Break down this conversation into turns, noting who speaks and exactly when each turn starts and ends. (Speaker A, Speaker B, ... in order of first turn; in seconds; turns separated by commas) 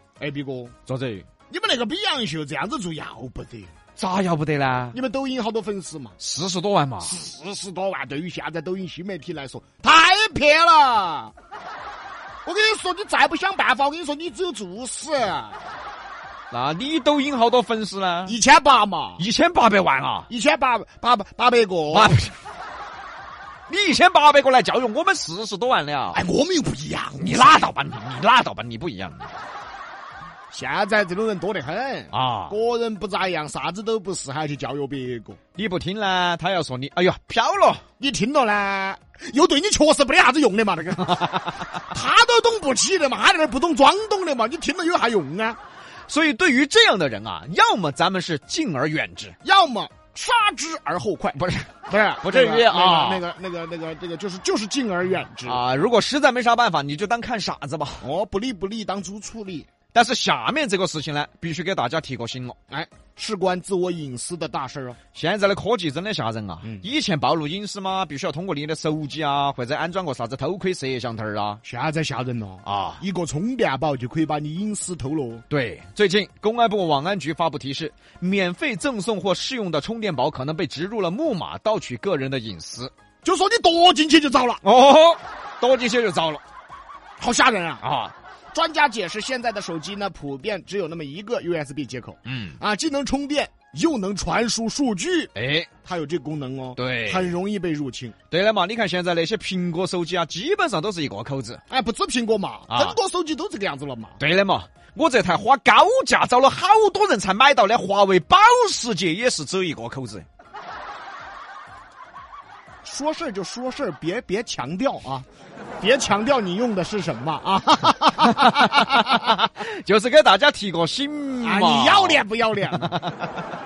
Speaker A: 0.2-0.8, Speaker B: 0.9-1.3, Speaker A: 1.5-3.7, Speaker B: 4.0-5.0, Speaker A: 4.9-6.2, Speaker B: 6.2-7.2, Speaker A: 7.0-11.3, Speaker A: 12.4-15.6, Speaker B: 16.5-18.4, Speaker A: 18.3-19.2, Speaker B: 19.2-20.3, Speaker A: 20.3-22.2, Speaker B: 21.9-22.3, Speaker B: 23.7-26.2, Speaker A: 26.1-27.6, Speaker B: 27.2-29.3, Speaker A: 30.5-35.4, Speaker B: 32.1-32.6, Speaker B: 35.6-37.8, Speaker A: 38.0-41.3, Speaker B: 41.1-41.6, Speaker A: 41.8-45.6, Speaker B: 46.1-49.4, Speaker A: 49.4-55.6, Speaker B: 51.4-53.2, Speaker B: 55.5-58.1, Speaker A: 58.0-59.7, Speaker B: 59.9-62.6, Speaker A: 62.7-65.0, Speaker B: 65.1-71.6, Speaker A: 71.7-75.4, Speaker B: 72.7-73.0, Speaker B: 75.5-82.9, Speaker A: 83.2-84.6, Speaker B: 84.6-86.4, Speaker A: 87.2-87.8, Speaker B: 87.8-88.1, Speaker A: 88.5-95.3, Speaker B: 92.3-92.6, Speaker B: 95.3-95.7, Speaker A: 95.8-98.2, Speaker B: 96.8-97.3, Speaker B: 98.3-101.6, Speaker A: 101.7-104.2, Speaker B: 102.7-103.0, Speaker B: 104.2-110.3, Speaker A: 112.8-115.3, Speaker A: 115.8-119.1, Speaker B: 118.2-122.2, Speaker A: 121.4-123.0, Speaker B: 122.9-123.2